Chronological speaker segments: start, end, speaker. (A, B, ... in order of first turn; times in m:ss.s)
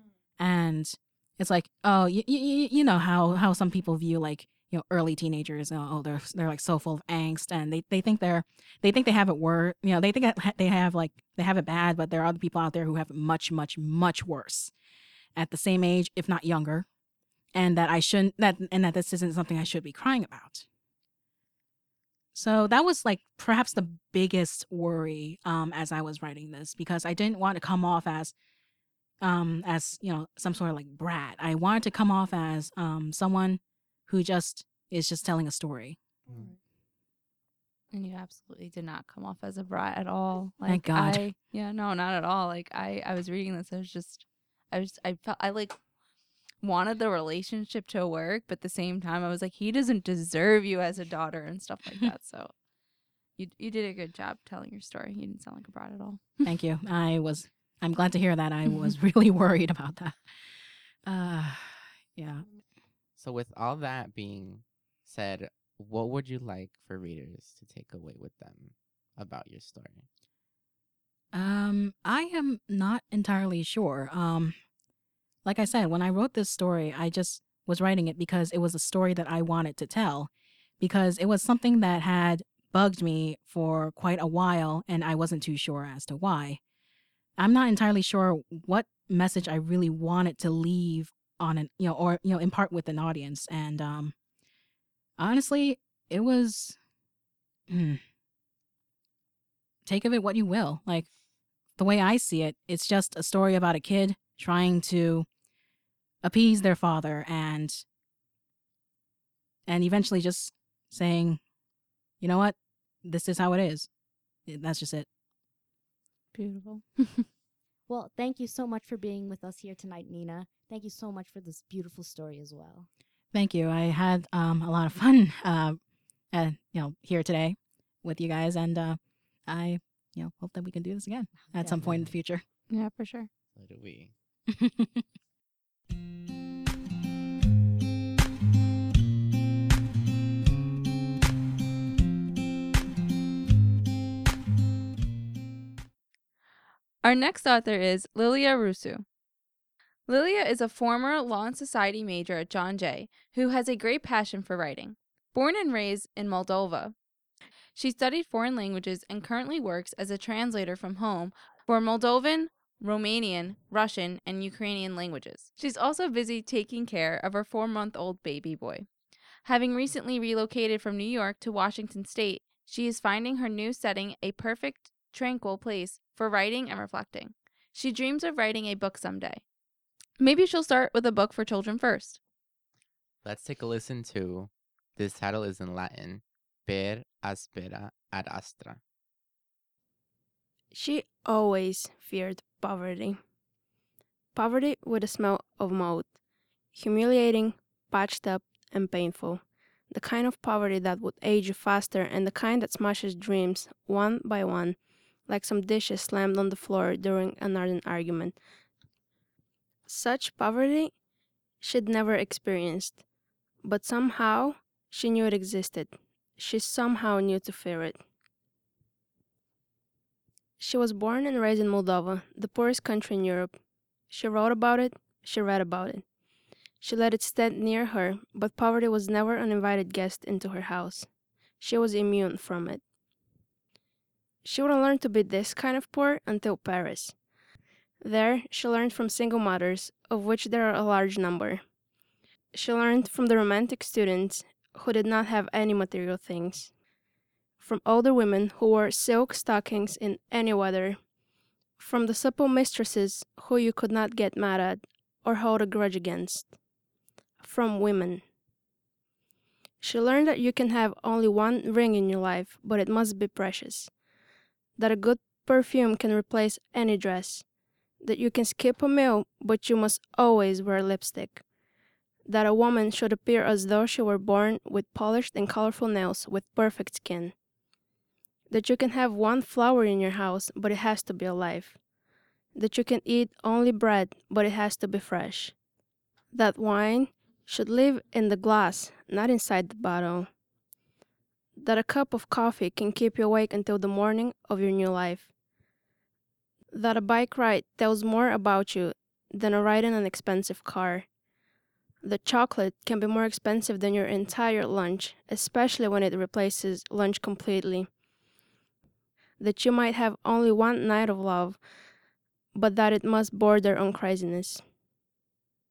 0:00.4-0:14.7 A
0:15.4-0:16.9 A
0:17.5-0:20.7 A
0:22.3-0:28.3 A
0:29.2-0:36.0 A
0:37.9-0:45.8 B
0:40.7-0:41.2 A
0:46.6-0:52.5 B
0:53.4-0:56.4 B
0:56.4-1:00.2 A
1:01.0-1:02.5 A
1:03.2-1:10.1 C
1:11.3-1:14.6 A
1:15.4-1:26.6 A
1:27.4-1:34.2 A
1:35.2-1:36.8 A
1:37.7-1:38.0 A
1:39.8-1:41.1 A
1:41.8-1:45.3 A
1:46.2-1:47.8 A
1:49.7-1:51.4 A
1:52.2-1:53.9 A
1:54.5-1:55.1 A
1:56.3-1:57.3 B
1:57.9-2:02.9 D
2:03.3-2:12.4 A
2:11.5-2:11.9 D
2:12.7-2:13.3 B
2:13.6-2:14.1 C
2:14.5-2:15.0 A
2:27.0-2:29.0 B
2:30.1-2:37.0 B
2:37.8-2:48.9 B
2:49.4-2:59.4 B
3:00.2-3:02.2 B
3:03.2-3:08.8 C
3:10.7-3:13.2 E
3:14.4-3:16.1 E
3:16.7-3:24.8 E
3:25.3-3:28.4 E
3:29.9-3:30.9 E
3:31.6-3:33.0 E
3:33.6-3:38.0 E
3:40.6-3:43.6 E
3:44.1-3:46.0 E
3:46.8-3:51.1 E
3:51.6-3:52.8 E
3:54.4-3:57.2 E
3:58.0-4:01.6 E
4:02.5-4:06.7 E
4:07.6-4:11.0 E
4:11.8-4:16.5 E
4:17.4-4:18.2 E
4:19.8-4:23.9 E
4:24.8-4:27.4 E
4:28.0-4:31.4 E
4:32.3-4:37.3 E
4:38.5-4:41.8 E
4:42.6-4:45.5 E
4:46.3-4:50.3 E
4:51.6-4:55.3 E
4:56.7-5:01.1 E
5:02.0-5:07.9 E
5:09.4-5:11.6 E
5:12.5-5:14.6 E